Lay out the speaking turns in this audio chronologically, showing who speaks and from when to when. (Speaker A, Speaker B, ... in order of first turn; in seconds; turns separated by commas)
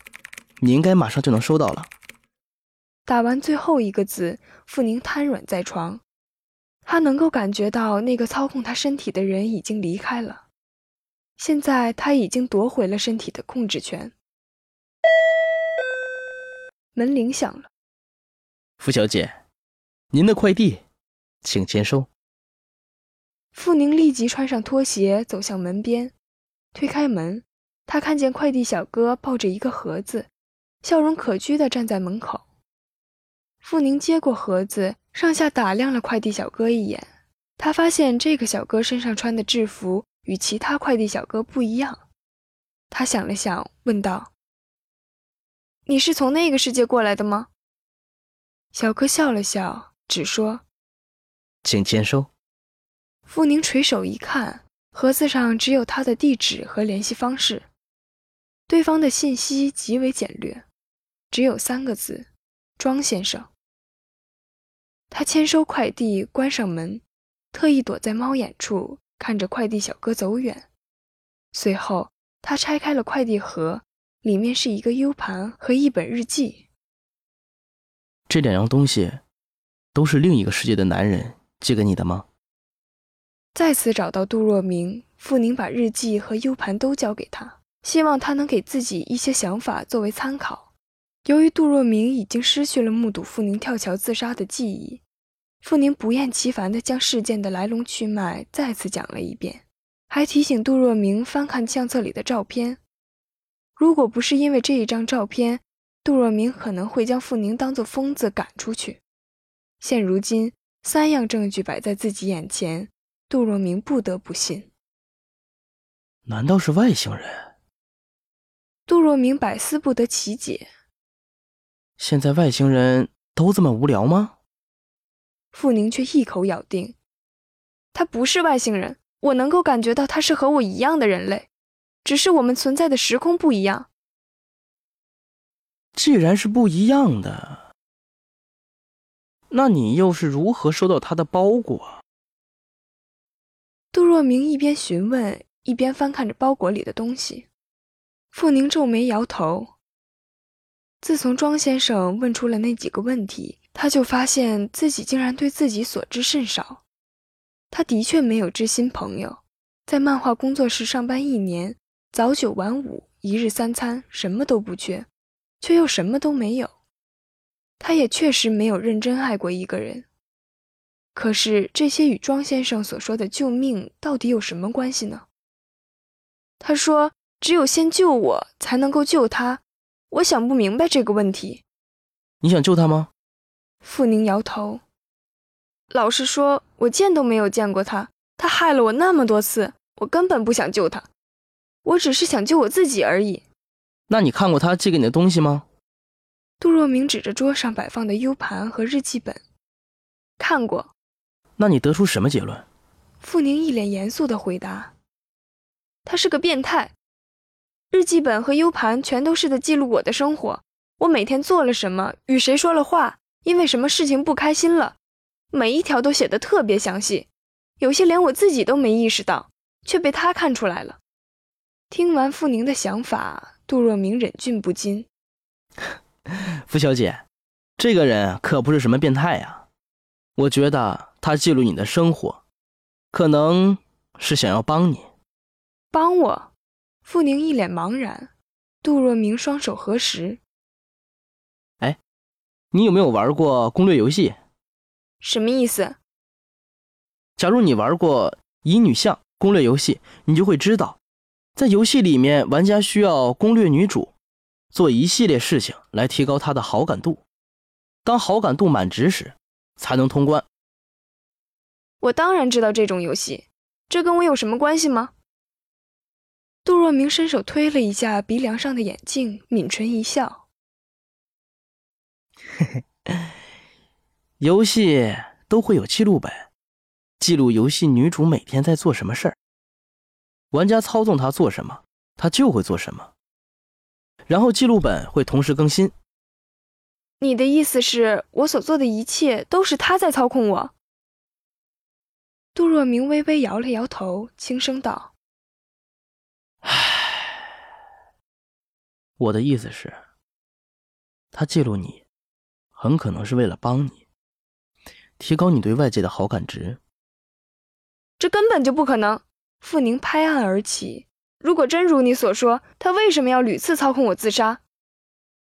Speaker A: 0.6-1.9, Speaker B: 3.1-6.0, Speaker B: 6.8-10.5, Speaker B: 11.4-14.1, Speaker B: 16.9-17.7, Speaker A: 18.8-19.4, Speaker A: 20.1-20.8, Speaker A: 21.4-22.1, Speaker B: 23.5-26.1, Speaker B: 26.7-30.3, Speaker B: 30.8-32.5, Speaker B: 33.6-42.0, Speaker B: 42.9-44.3, Speaker B: 45.9-47.5, Speaker B: 48.7-50.6, Speaker A: 51.6-52.3, Speaker B: 53.3-57.7, Speaker B: 58.7-60.7, Speaker B: 61.3-62.3, Speaker B: 62.8-63.5, Speaker B: 65.1-67.0, Speaker B: 67.5-70.7, Speaker B: 71.5-76.7, Speaker A: 78.3-79.2, Speaker A: 80.0-82.3, Speaker B: 83.5-90.7, Speaker B: 91.2-95.0, Speaker B: 95.6-102.8, Speaker B: 103.8-109.0, Speaker B: 109.8-114.7, Speaker A: 116.3-117.4, Speaker B: 118.9-120.7, Speaker A: 122.0-124.3, Speaker B: 125.5-127.0, Speaker B: 127.9-131.5, Speaker B: 132.1-133.9, Speaker A: 135.9-137.7, Speaker A: 139.5-142.0, Speaker B: 143.9-147.5, Speaker B: 148.3-149.7, Speaker B: 151.0-156.8, Speaker B: 157.7-165.1, Speaker B: 165.6-166.7, Speaker B: 167.8-170.1, Speaker B: 171.2-175.3, Speaker B: 176.6-181.6, Speaker A: 182.4-183.1, Speaker B: 183.8-184.8, Speaker B: 185.9-191.1, Speaker B: 191.8-193.4, Speaker A: 194.1-195.7, Speaker B: 196.6-199.4, Speaker B: 200.4-200.9, Speaker A: 201.6-202.7, Speaker B: 203.2-204.9, Speaker B: 206.1-206.9, Speaker B: 207.9-215.0, Speaker B: 215.5-221.0, Speaker B: 221.9-225.1, Speaker A: 226.3-227.2, Speaker A: 227.8-229.7, Speaker A: 230.4-232.4, Speaker A: 233.1-235.1, Speaker B: 235.9-236.5, Speaker B: 237.1-238.3, Speaker B: 238.8-240.4, Speaker A: 242.7-244.4, Speaker B: 245.2-246.0, Speaker A: 247.4-251.0, Speaker A: 251.6-254.1, Speaker A: 254.7-257.2, Speaker A: 258.1-260.5, Speaker B: 262.0-265.1, Speaker B: 266.6-270.4, Speaker A: 274.4-276.5, Speaker A: 277.2-279.4, Speaker A: 280.5-283.1, Speaker A: 284.3-285.9, Speaker B: 287.2-290.7, Speaker B: 292.6-295.1, Speaker A: 296.6-297.3, Speaker A: 299.2-300.0, Speaker A: 301.3-302.0, Speaker A: 302.8-304.1, Speaker A: 305.2-306.8, Speaker B: 308.2-314.6